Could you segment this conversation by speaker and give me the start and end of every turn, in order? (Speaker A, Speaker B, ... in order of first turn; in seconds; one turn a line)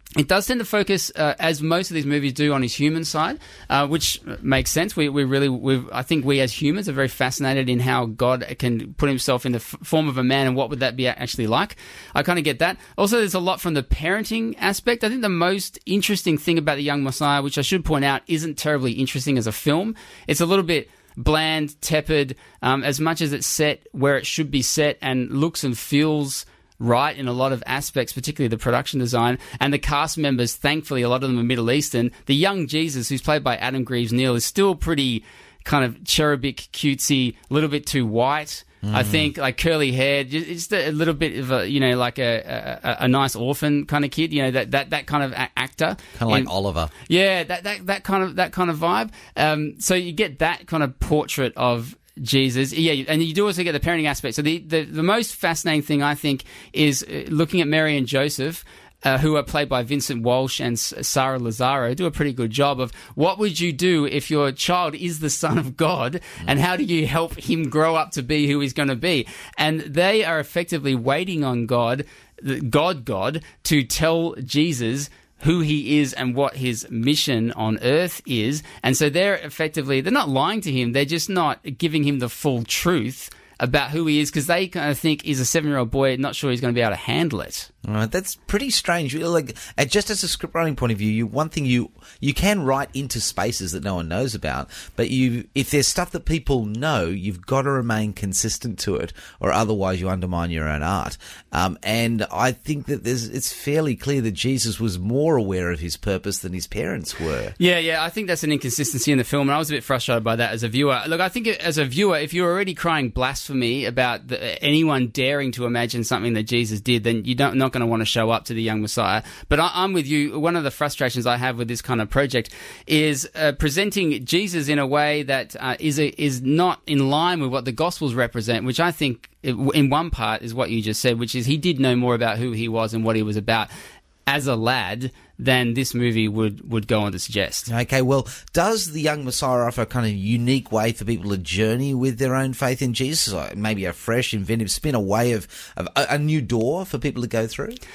Speaker A: 0.2-46.5
Speaker B: 38.8-39.3
Speaker B: 46.1-46.9
Speaker A: 47.1-87.7
Speaker B: 87.8-107.5
Speaker A: 107.6-133.7
Speaker A: 134.3-137.7
Speaker B: 137.7-147.8